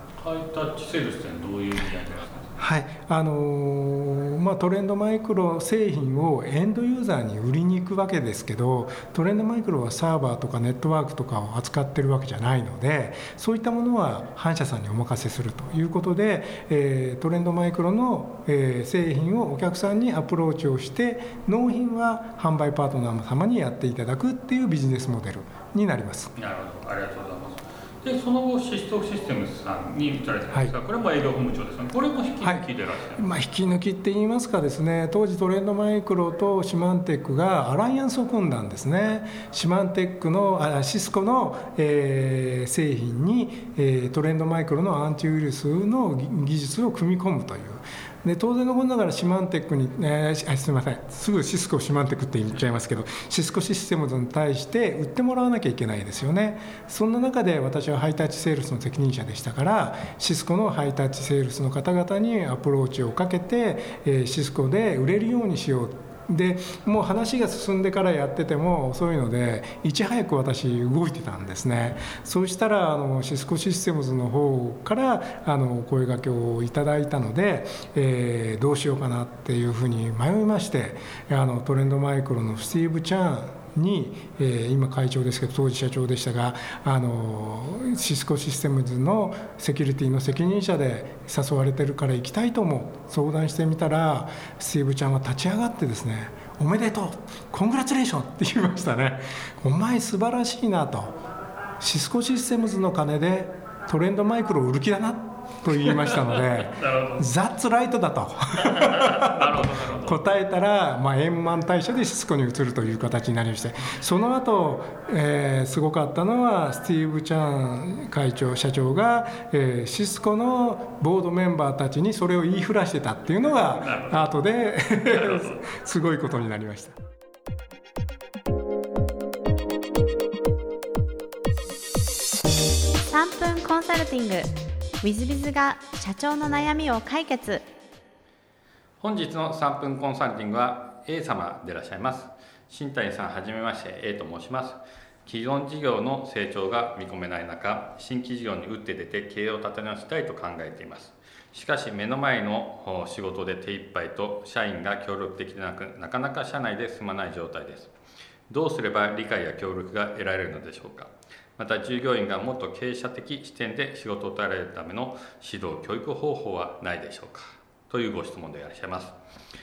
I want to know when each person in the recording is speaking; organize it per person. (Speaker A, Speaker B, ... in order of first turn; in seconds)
Speaker A: 0.2-2.5, 26.4-33.3, 105.9-107.2, 108.6-110.2, 123.6-124.3, 125.0-125.7, 139.0-157.9, 158.5-169.2
Speaker B: 2.6-26.3, 33.1-101.2, 101.8-127.0
Speaker C: 133.1-134.5, 135.0-137.6